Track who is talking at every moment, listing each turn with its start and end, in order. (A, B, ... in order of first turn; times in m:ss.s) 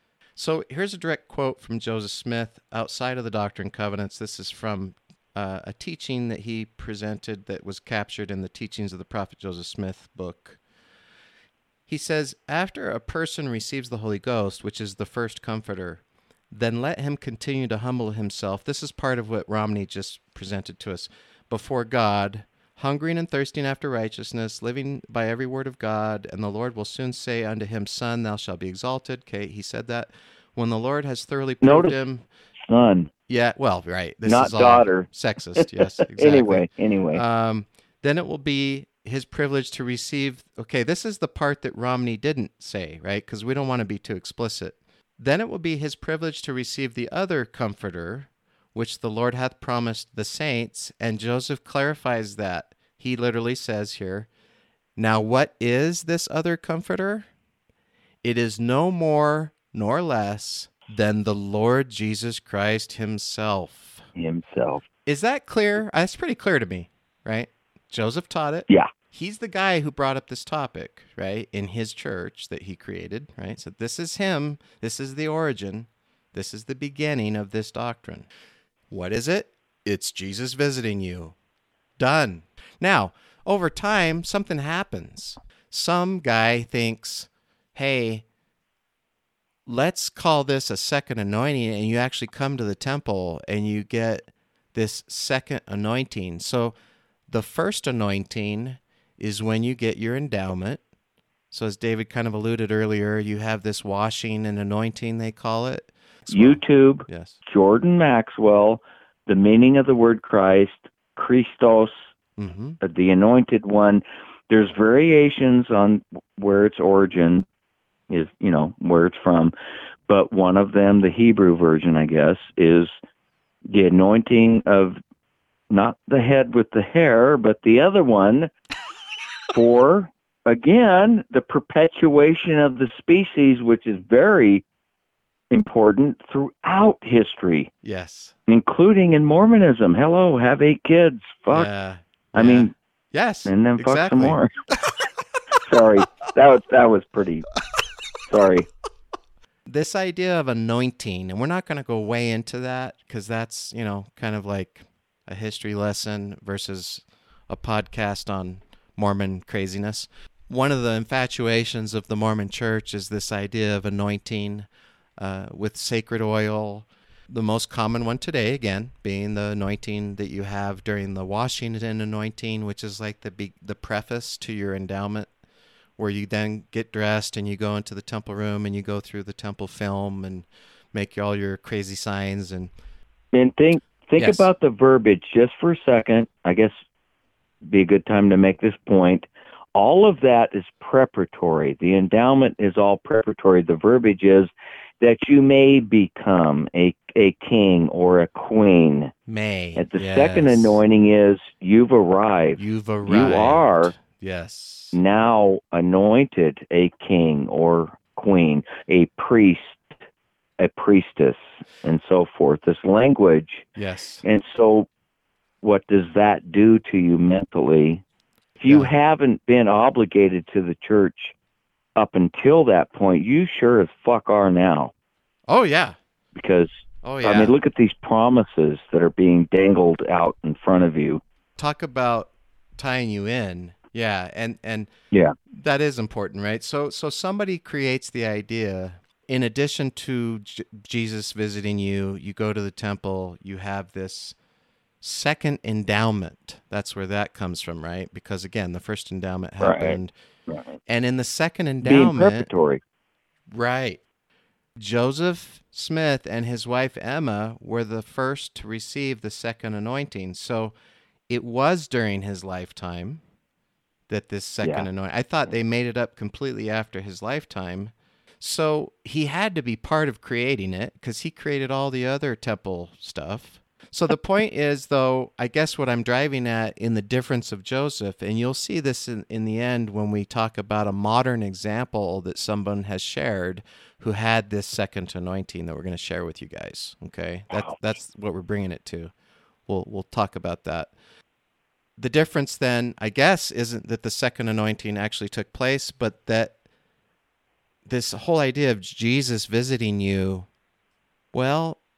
0:00.4-0:10.6 A
0:11.9-0:32.2 A
0:31.6-0:31.9 B
0:32.6-0:33.1 B
0:33.3-0:54.3 A
0:34.2-0:37.2 B
0:55.0-0:57.3 A
0:58.2-1:04.0 A
1:04.2-1:04.8 B
1:05.0-1:18.3 A
1:18.9-1:21.3 A
1:22.0-1:28.2 A
1:29.6-1:36.7 A
1:37.3-1:40.8 A
1:41.5-1:47.4 A
1:46.3-1:52.0 B
1:52.4-1:52.8 A
1:52.8-1:57.4 B
1:58.1-1:59.5 B
2:00.1-2:02.9 B
2:03.7-2:05.0 B
2:05.7-2:08.5 B
2:09.5-2:14.6 B
2:15.5-2:17.7 B
2:17.8-2:18.3 A
2:18.5-2:21.7 B
2:21.5-2:24.9 A
2:22.3-2:22.7 B
2:23.4-2:24.5 B
2:25.6-2:27.5 B
2:28.3-2:28.7 B
2:29.6-2:44.7 A
2:45.2-2:55.3 A
2:56.0-3:02.7 A
3:03.3-3:06.7 B
3:04.2-3:04.5 A
3:07.7-3:19.1 B
3:19.3-3:20.8 A
3:19.8-3:23.9 B
3:22.6-3:25.0 A
3:24.9-3:29.9 B
3:30.6-3:33.6 B
3:33.8-3:34.2 A
3:34.2-3:34.9 B
3:35.6-3:38.0 B
3:38.6-3:41.3 B
3:38.6-3:38.9 A
3:42.0-3:44.9 B
3:45.5-3:46.0 A
3:46.3-3:46.7 B
3:47.0-3:47.5 A
3:47.2-3:51.2 B
3:51.6-3:54.9 A
3:55.5-4:04.4 A
4:05.0-4:10.1 A
4:09.6-4:10.0 B
4:10.5-4:10.8 B
4:10.9-4:12.5 A
4:11.8-4:12.8 B
4:13.5-4:14.0 A
4:14.8-4:20.7 A
4:21.3-4:23.2 A
4:24.1-4:49.1 A
4:49.7-4:50.9 A
4:52.0-4:56.5 A
4:57.8-5:00.5 A
5:01.3-5:01.8 A